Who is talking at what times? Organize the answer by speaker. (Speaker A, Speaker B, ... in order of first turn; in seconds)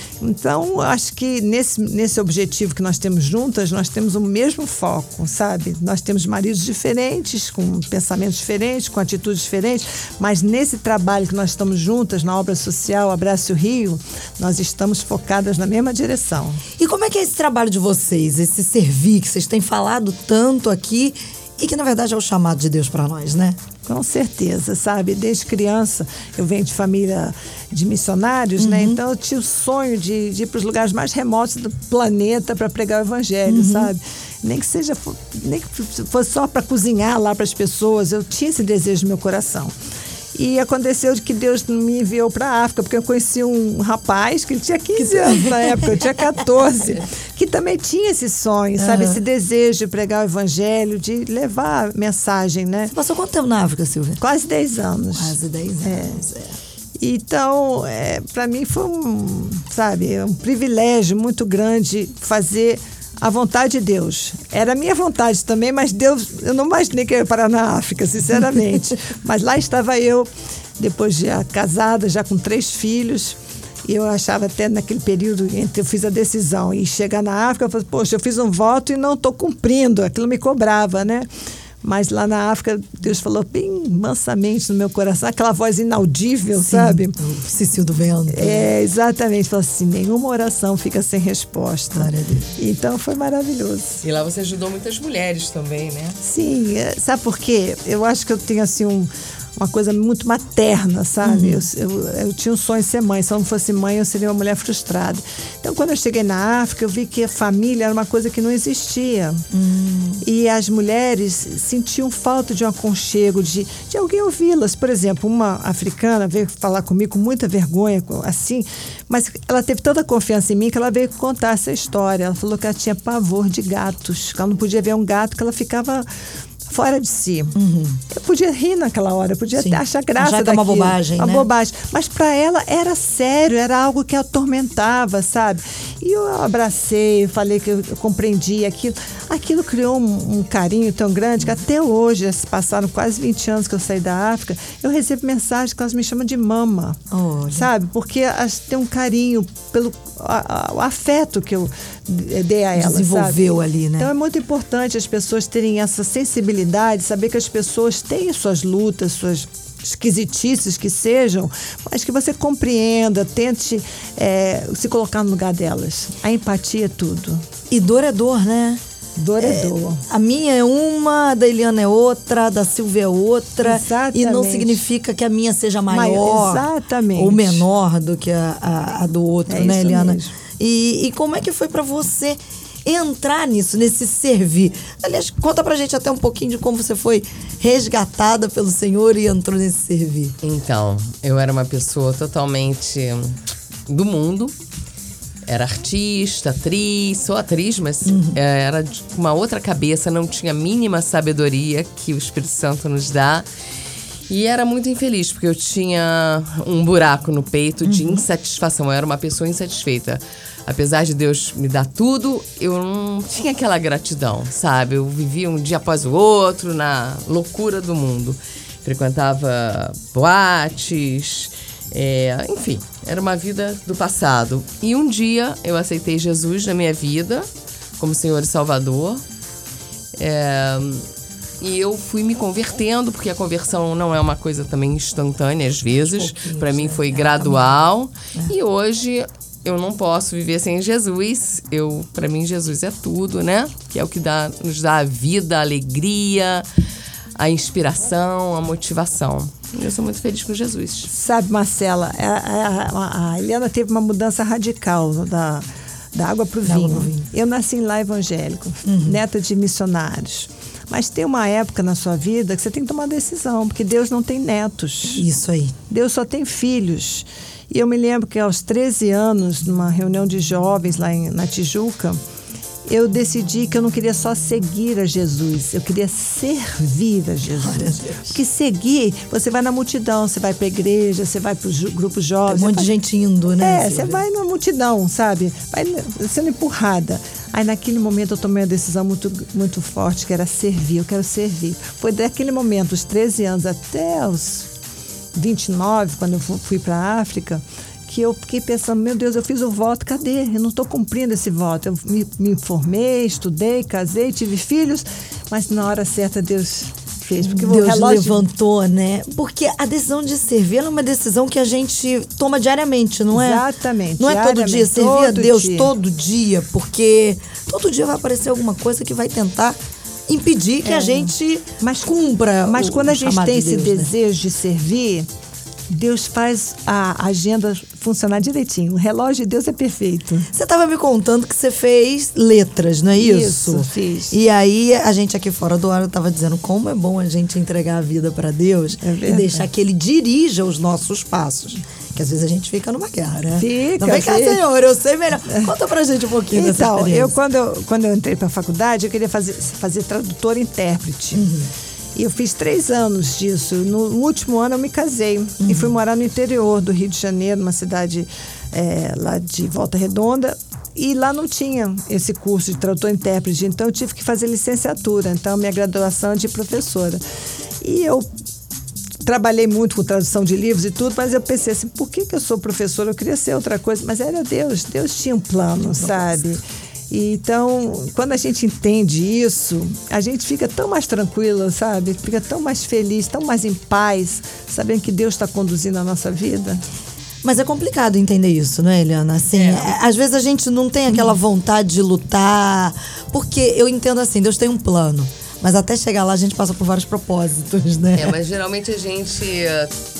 Speaker A: 0.2-16.6, 23.9-39.7, 40.4-52.9, 54.2-56.2, 57.0-81.3, 81.8-87.2, 88.3-94.0, 96.2-109.4, 110.2-126.1, 126.7-127.6, 128.1-147.0, 147.5-153.4, 154.0-167.4, 169.2-170.0, 173.6-174.8, 175.9-177.7, 179.5-180.3, 251.1-265.2, 265.9-272.2, 272.9-282.9, 283.6-294.7, 295.4-308.4, 313.3-315.9, 320.8-325.3, 325.9-330.5, 333.2-334.4, 339.0-339.7, 343.6-344.6, 346.5-351.4, 352.2-367.2, 367.8-368.3, 369.2-386.8
Speaker B: 16.8-23.6, 28.6-29.0, 33.5-33.9, 45.0-45.9, 48.8-49.2, 52.9-54.2, 55.2-56.6, 86.6-88.7, 91.9-92.5, 101.2-101.6, 109.5-110.2, 127.5-128.0, 129.6-131.5, 147.1-147.7, 152.8-154.1, 167.7-168.8, 169.4-190.3, 198.1-198.4, 207.8-208.2, 236.0-237.8, 256.6-257.3, 258.8-259.2, 265.1-265.8, 277.6-278.4, 282.5-284.2, 307.4-313.6, 314.2-319.8, 320.3-324.1, 330.5-347.3, 351.3-351.7, 355.6-355.9, 375.9-376.4, 387.4-398.3
Speaker C: 94.0-96.2, 190.4-194.5, 195.4-203.4, 204.3-227.5, 228.0-229.2, 230.2-231.1, 231.6-246.7, 247.3-251.1, 389.5-389.9, 398.1-399.9